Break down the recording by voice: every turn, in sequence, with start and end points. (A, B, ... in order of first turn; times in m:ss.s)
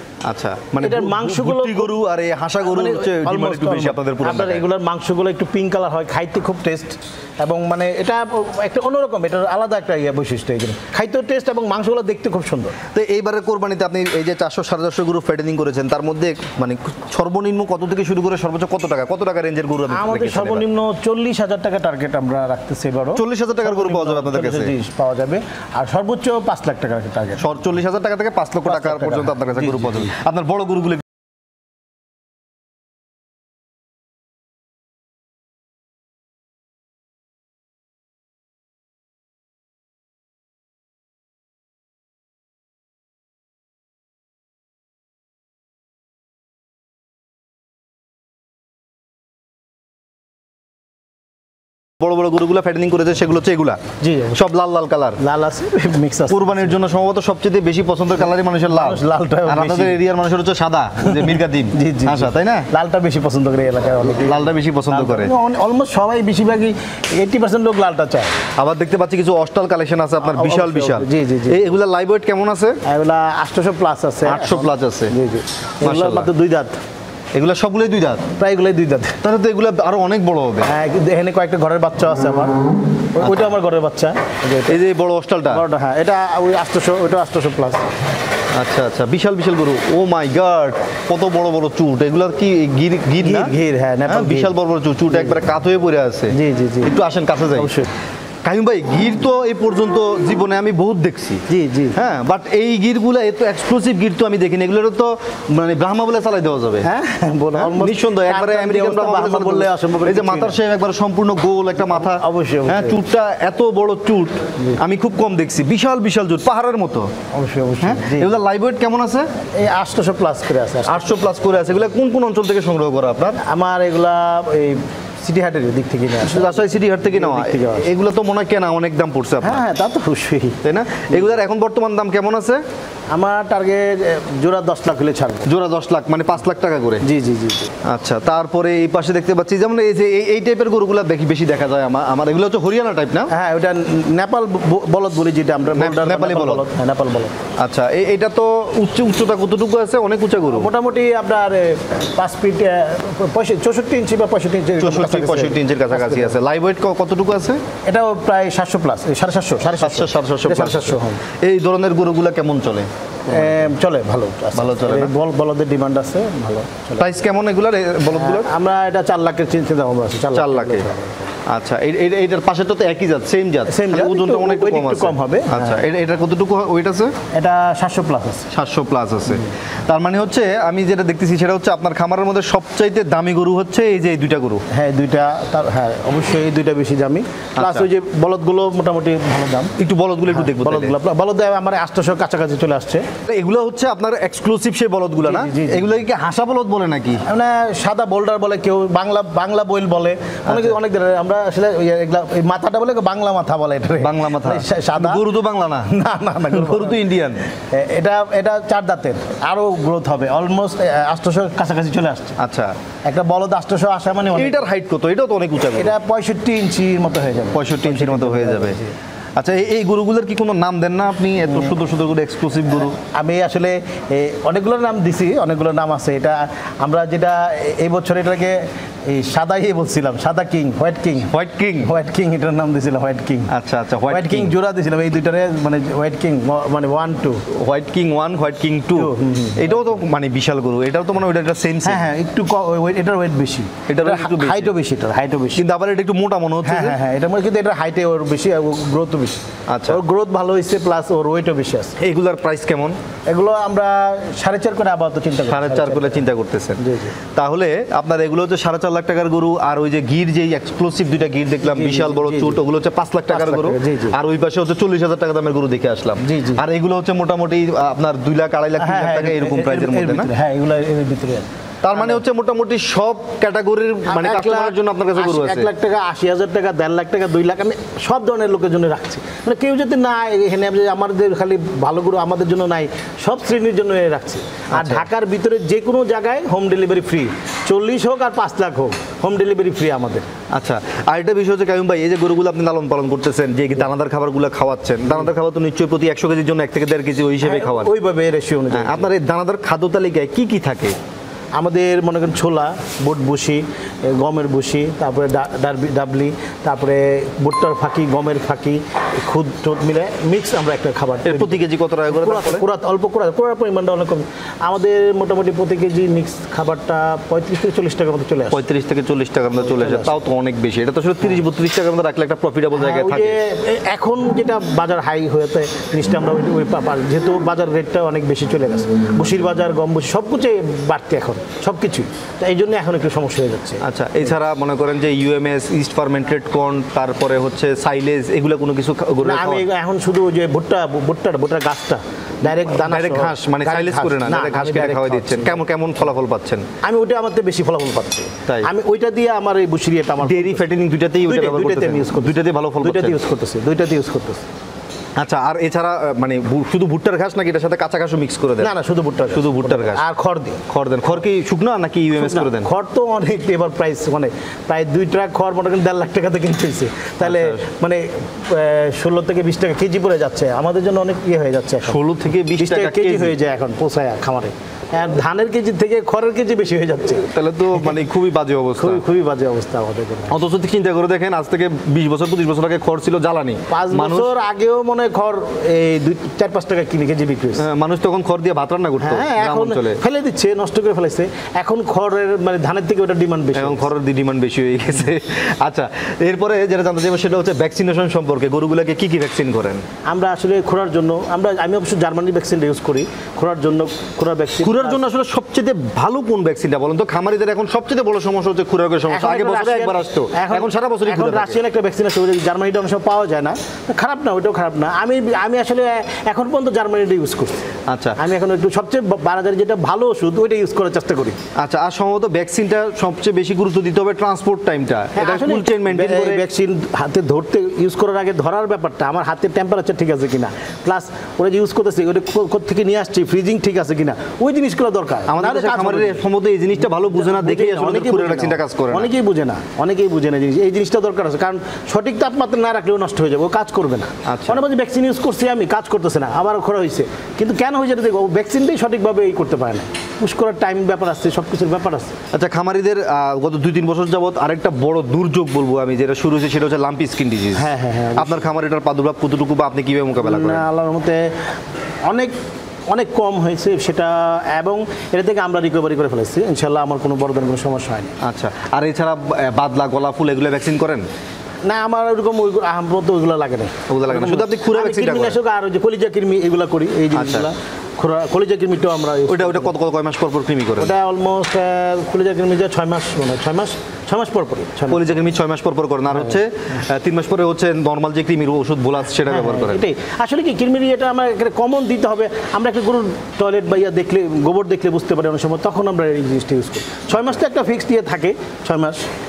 0:00.2-0:04.6 A
0:00.8-0:02.0 B
0:02.6-0:12.8 B
0:12.9-0:20.6 A
0:19.9-0:27.5 B
0:23.2-0:24.8 A
0:27.4-0:31.1 A
0:28.6-0:30.1 B
0:52.0-0:53.8 A
0:54.0-0:54.4 B
0:54.3-0:55.2 A
0:55.2-0:56.8 B
0:56.3-1:02.7 A
0:58.7-1:00.0 B
1:01.0-1:08.4 B
1:04.2-1:05.3 A
1:08.6-1:12.8 A
1:10.2-1:11.7 B
1:12.8-1:16.8 B
1:14.2-1:15.1 A
1:15.8-1:16.3 A
1:17.3-1:18.3 A
1:18.4-1:19.2 B
1:19.2-1:20.7 A
1:20.6-1:22.6 B
1:23.1-1:24.8 B
1:23.2-1:23.5 A
1:24.7-1:25.6 A
1:25.5-1:27.9 B
1:28.5-1:33.5 A
1:33.2-1:34.5 B
1:34.1-1:37.7 A
1:35.1-1:35.4 B
1:36.3-1:36.9 B
1:37.5-1:37.9 B
1:38.4-1:41.4 A
1:41.5-1:42.0 B
1:41.9-1:46.9 A
1:46.8-1:50.6 B
1:47.5-1:57.1 A
1:51.8-1:53.0 B
1:57.3-1:58.4 B
1:57.8-1:59.3 A
1:59.5-2:01.2 B
2:00.8-2:03.4 A
2:03.4-2:07.9 B
2:06.2-2:09.6 A
2:09.4-2:10.6 B
2:10.6-2:12.6 A
2:13.1-2:15.5 B
2:15.4-2:17.0 A
2:17.0-2:17.7 B
2:17.8-2:23.3 A
2:23.3-2:27.4 B
2:25.8-2:26.6 A
2:27.6-2:30.7 A
2:30.5-2:36.4 B
2:34.8-2:37.6 A
2:37.8-2:41.2 B
2:39.8-2:43.7 A
2:43.3-2:47.2 B
2:44.5-2:45.1 A
2:47.0-2:48.5 A
2:48.1-2:51.3 B
2:50.3-2:50.9 A
2:51.4-2:57.1 A
2:53.7-2:55.8 B
2:57.3-2:58.5 B
2:58.5-3:04.6 A
3:04.7-3:09.7 B
3:07.6-3:07.9 A
3:09.8-3:10.9 A
3:10.3-3:13.0 B
3:13.3-3:17.2 A
3:15.2-3:15.9 B
3:17.2-3:25.2 B
3:20.4-3:20.8 A
3:24.0-3:27.4 A
3:25.8-3:27.0 B
3:27.6-3:32.4 B
3:32.4-3:32.8 A
3:33.0-3:34.6 B
3:34.3-3:35.9 A
3:35.8-3:38.9 B
3:37.5-3:38.8 A
3:39.4-3:43.0 A
3:42.9-3:53.5 B
3:51.3-3:51.9 A
3:53.5-3:54.5 A
3:54.1-3:57.4 B
3:57.5-4:02.1 A
3:58.9-4:00.0 B
4:01.8-4:05.6 B
4:03.9-4:04.7 A
4:05.6-4:07.0 A
4:06.6-4:12.0 B
4:09.7-4:10.0 A
4:12.0-4:13.0 A
4:13.3-4:16.2 B
4:15.4-4:16.8 A
4:16.8-4:17.2 B
4:17.3-4:30.3 A
4:21.6-4:22.6 B
4:23.3-4:24.2 B
4:26.2-4:26.6 B
4:28.8-4:32.2 B
4:31.8-4:35.7 A
4:34.1-4:50.2 B
4:44.7-4:45.1 A
4:50.5-4:57.9 A
4:57.4-4:59.1 B
4:58.7-5:01.0 A
5:01.6-5:18.6 B
5:11.2-5:12.6 A
5:18.5-5:23.4 A
5:19.6-5:20.2 B
5:22.7-5:33.8 B
5:33.8-5:39.7 A
5:39.2-5:45.6 B
5:42.5-5:46.7 A
5:46.8-5:50.6 B
5:50.2-5:53.2 A
5:51.2-5:54.4 B
5:55.2-5:58.7 A
5:58.6-6:00.6 B
5:59.3-6:00.0 A
6:00.7-6:02.7 A
6:02.2-6:12.0 B
6:07.2-6:07.6 A
6:11.8-6:13.4 A
6:12.6-6:17.3 B
6:17.3-6:19.0 A
6:18.8-6:20.3 B
6:20.3-6:24.3 A
6:23.7-6:27.7 B
6:27.6-6:30.0 A
6:29.0-6:33.9 B
6:33.5-6:39.8 A
6:40.1-6:45.0 B
6:44.6-6:51.6 A
6:49.1-7:01.4 B
6:57.9-6:58.2 A
7:01.6-7:06.5 A
7:05.2-7:16.2 B
7:15.3-7:19.1 A
7:17.1-7:32.2 B
7:24.2-7:24.6 A
7:32.3-7:40.6 A
7:37.6-7:38.4 B
7:40.2-7:41.3 B
7:42.1-7:42.3 B
7:42.9-7:48.1 B
7:48.2-7:51.0 A
7:51.6-7:59.7 B
7:53.9-7:55.4 A
7:57.1-7:57.5 A
7:59.3-8:00.9 A
8:00.8-8:05.1 B
8:04.9-8:09.8 A
8:09.2-8:19.1 B